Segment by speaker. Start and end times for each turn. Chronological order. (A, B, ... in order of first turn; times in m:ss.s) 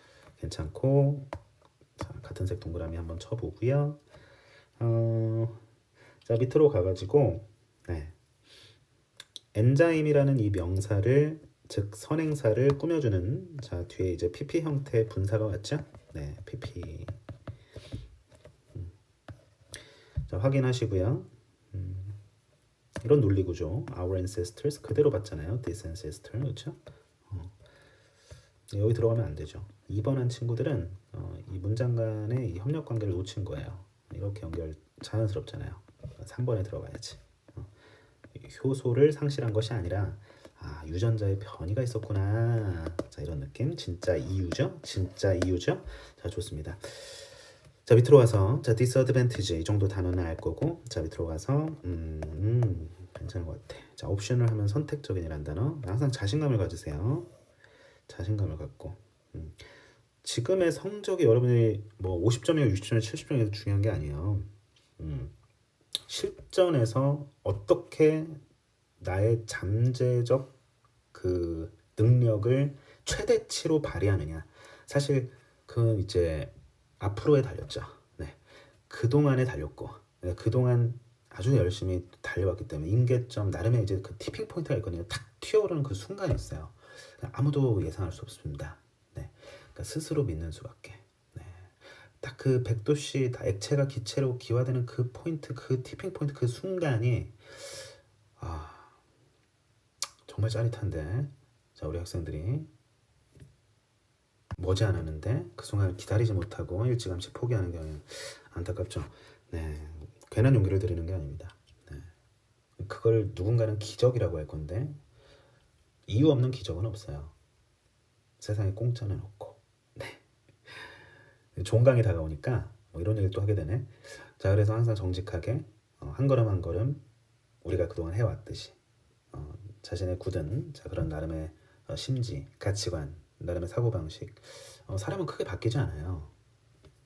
0:00.4-0:01.3 A
0:02.0-0:04.0 A
0:04.8-0:05.6 A
0:06.2-0:08.1 A
0:09.5-0:17.2 A
0:20.3-0:22.2 A
0:23.0-0:27.5 A
0:28.7-0:37.7 A
0:38.4-0:47.2 A
0:47.9-0:57.3 A
0:58.1-0:59.6 A
1:00.2-1:05.3 A
1:06.1-1:08.4 A
1:09.0-1:10.6 A
1:11.1-1:37.9 A
1:38.4-1:38.9 A
1:40.2-1:42.7 A
1:44.6-1:52.1 A
1:52.8-1:55.0 A
1:56.1-1:57.3 A
1:58.4-2:00.9 A
2:01.6-2:07.0 A
2:07.6-2:08.8 A
2:09.3-2:16.3 A